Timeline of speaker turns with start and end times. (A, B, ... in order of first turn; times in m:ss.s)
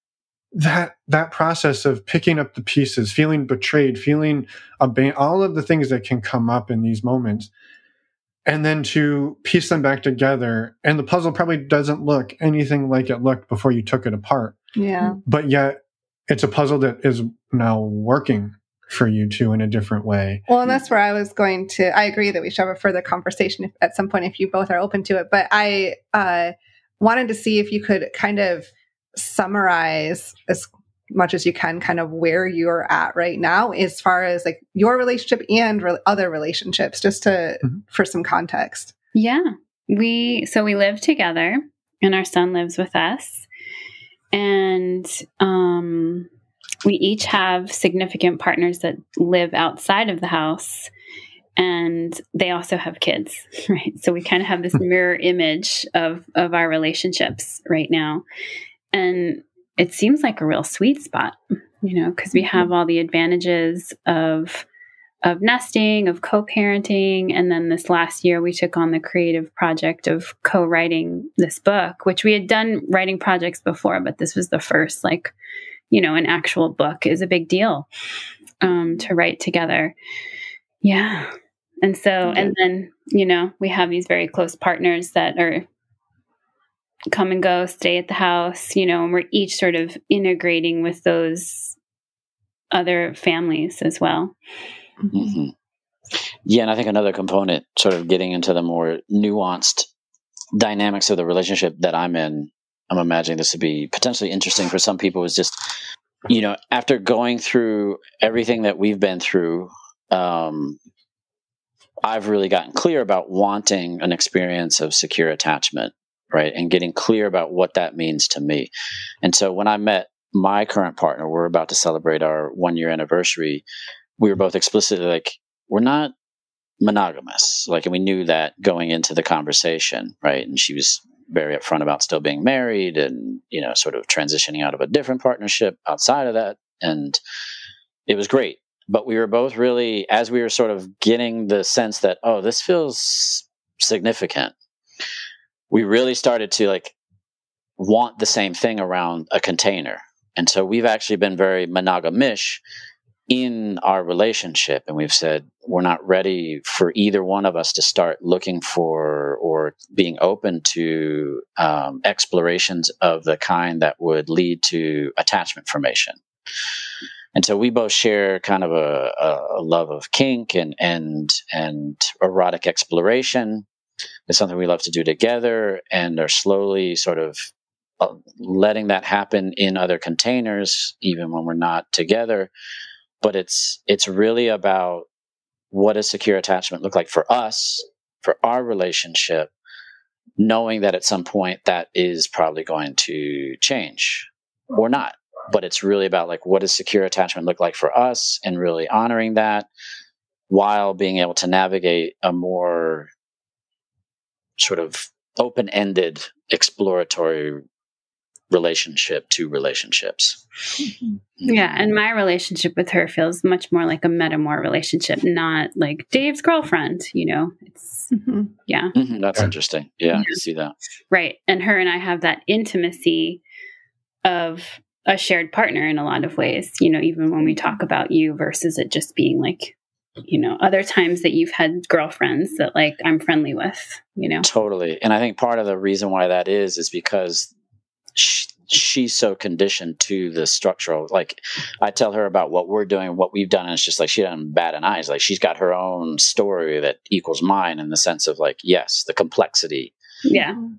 0:00.5-0:07.5 A
0:08.5-0:14.6 A
0:14.8-0:15.2 B
0:15.2-0:20.4 A
0:20.5-0:38.9 B
0:39.2-0:43.5 C
0:44.3-0:46.3 C
0:46.8-0:50.9 C
0:51.6-0:58.2 C
0:58.9-1:04.7 C
1:05.2-1:15.3 C
1:15.9-1:17.9 C
1:18.6-1:20.0 C
1:20.8-1:25.7 C
1:27.1-1:31.8 C
1:32.7-1:34.4 C
1:35.1-1:35.5 D
1:36.5-1:39.9 D
1:40.5-1:45.7 D
1:46.3-1:50.8 D
1:52.0-1:58.7 D
1:59.2-2:03.6 D
2:04.2-2:06.1 D
2:06.8-2:17.2 D
2:18.1-2:24.5 D
2:25.7-2:26.9 D
2:27.8-2:32.6 D
2:33.3-2:46.2 D
2:47.4-2:53.6 D
2:54.3-3:02.5 D
3:03.2-3:05.1 D
3:05.7-3:09.5 D
3:10.4-3:19.7 D
3:20.5-3:23.1 D
3:24.6-3:27.6 D
3:28.5-3:30.4 D
3:31.4-3:31.7 D
3:31.4-3:38.1 C
3:38.1-3:38.5 B
3:38.7-3:38.9 C
3:39.0-3:40.8 D
3:41.1-3:43.4 C
3:44.2-3:49.8 C
3:50.3-3:54.5 C
3:54.4-3:57.5 D
3:58.2-4:09.9 D
4:10.2-4:10.6 C